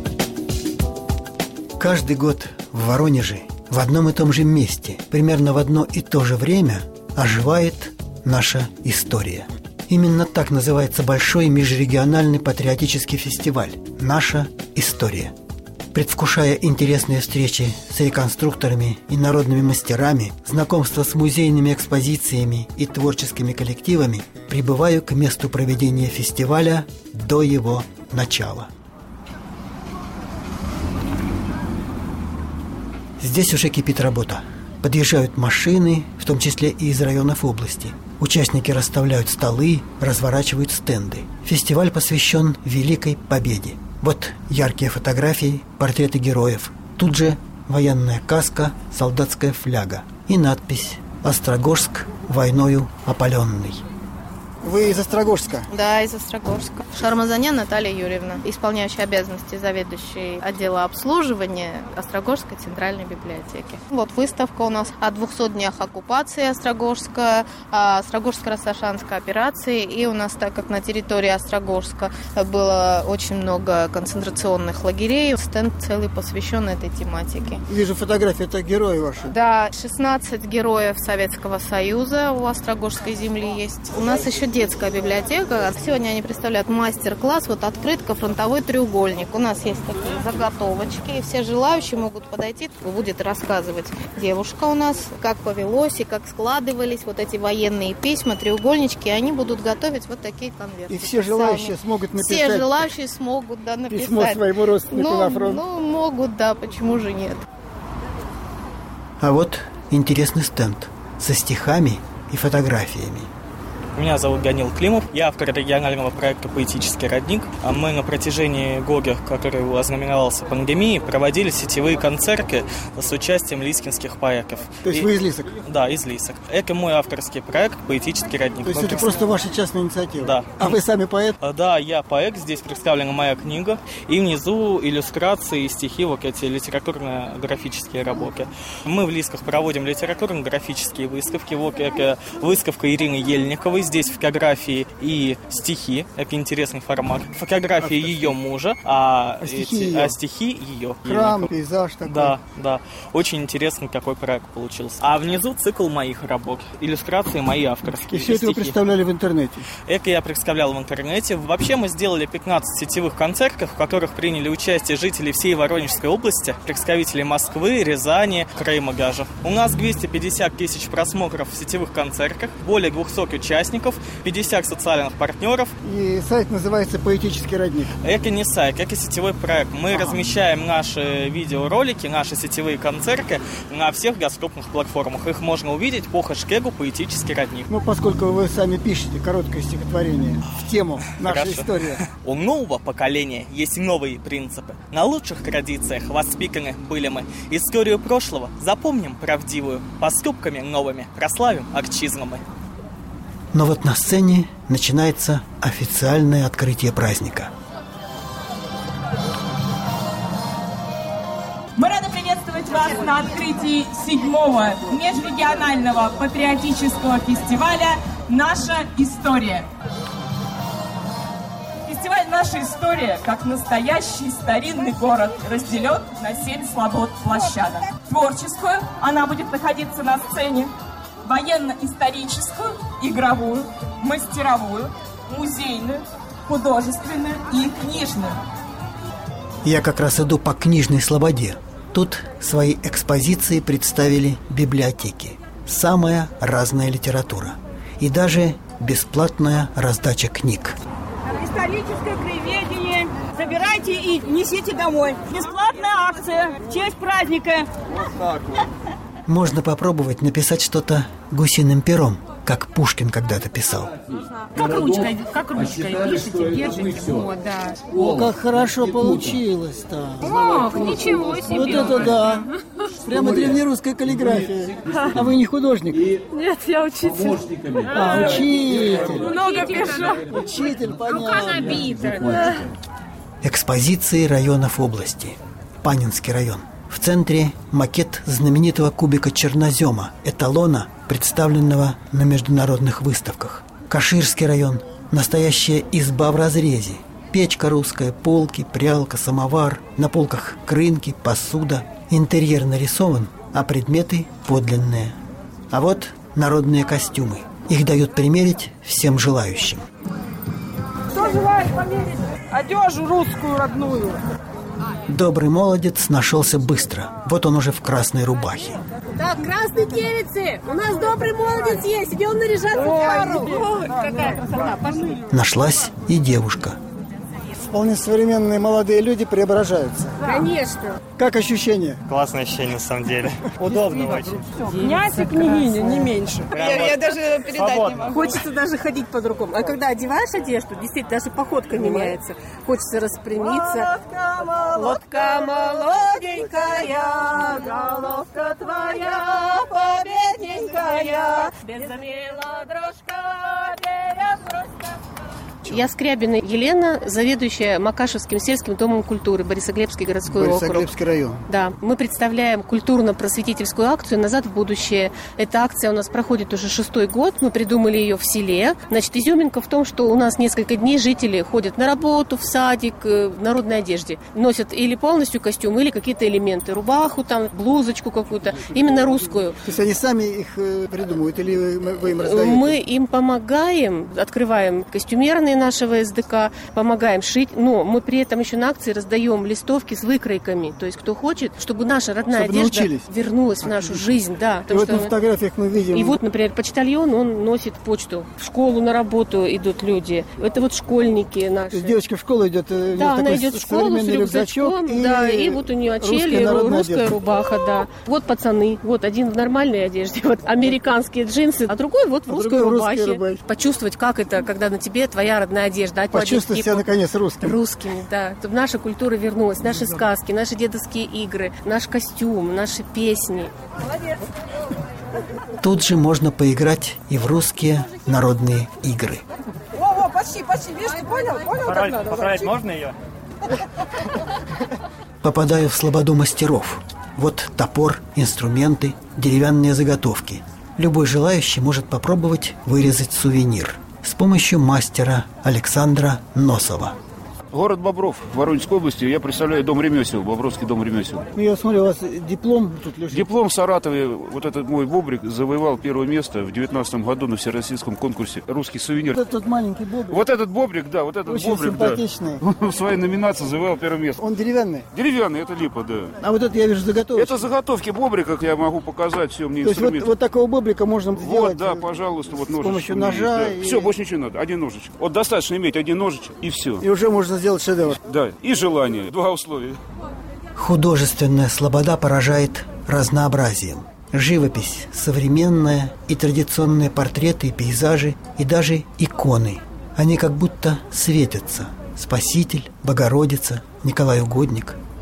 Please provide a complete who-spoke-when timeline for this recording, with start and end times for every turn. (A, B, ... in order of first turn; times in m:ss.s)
0:01.8-0:15.3 A
0:15.9-0:28.7 A
0:33.2-0:53.8 A
0:54.6-0:55.7 B
0:55.7-1:17.6 C
1:17.7-1:19.3 B
1:19.3-1:47.4 C
1:40.9-1:42.9 B
1:43.9-1:45.6 B
1:49.2-1:53.3 A
1:54.0-2:09.3 D
2:04.8-2:05.5 B
2:08.6-2:11.4 B
2:10.2-2:10.8 D
2:11.4-2:31.5 D
2:27.8-2:28.3 B
2:29.4-2:30.2 B
2:31.0-2:32.4 B
2:32.0-2:38.8 D
2:38.1-2:39.7 B
2:39.9-2:55.7 D
2:55.8-2:57.9 B
2:58.0-3:07.7 D
2:59.9-3:00.2 B
3:07.7-3:12.0 B
3:11.1-3:22.4 D
3:23.5-3:27.5 A
3:31.8-3:39.7 E
3:41.9-3:50.7 E
3:51.2-3:58.4 E
3:59.6-4:10.8 A
4:11.4-4:17.6 F
4:19.3-4:23.9 A
4:24.6-4:27.6 G
4:27.9-4:30.4 B
4:30.4-4:31.7 H
4:31.6-4:32.5 B
4:33.0-4:36.1 B
4:38.0-4:39.2 B
4:39.2-4:40.2 H
4:40.3-4:42.0 B
4:43.4-5:05.2 A
5:05.7-5:09.8 A
5:15.1-5:18.8 A
5:19.2-5:24.5 G
5:25.3-5:26.8 A
5:27.6-5:30.2 B
5:30.2-5:31.0 G
5:31.2-5:32.0 B
5:32.1-5:34.4 I
5:36.6-5:36.8 F
5:36.6-5:36.9 I
5:37.6-5:38.0 I
5:38.0-5:44.0 G
5:44.8-5:46.2 G
5:55.6-6:00.9 G
6:00.3-6:01.4 B
6:01.5-6:19.6 G
6:19.6-6:22.8 B
6:22.1-6:35.1 G
6:32.3-6:33.0 B
6:33.6-6:34.2 B
6:34.7-6:36.2 B
6:35.9-6:42.0 G
6:41.7-6:47.1 B
6:42.9-6:56.9 G
6:52.3-6:53.4 B
6:56.1-6:57.6 B
6:57.4-7:03.5 G
7:05.6-7:09.2 A
7:11.7-7:12.9 I
7:15.2-7:27.0 A
7:27.5-7:31.3 J
7:31.4-7:33.3 B
7:33.1-7:39.2 J
7:39.2-7:40.3 B
7:40.1-7:44.2 J
7:41.3-7:42.4 B
7:44.2-7:44.9 B
7:44.9-7:46.1 J
7:46.2-7:47.5 B
7:47.1-7:50.1 J
7:49.6-7:53.9 B
7:51.2-7:56.8 J
7:56.8-7:58.0 B
7:58.0-7:59.8 J
8:00.6-8:14.8 A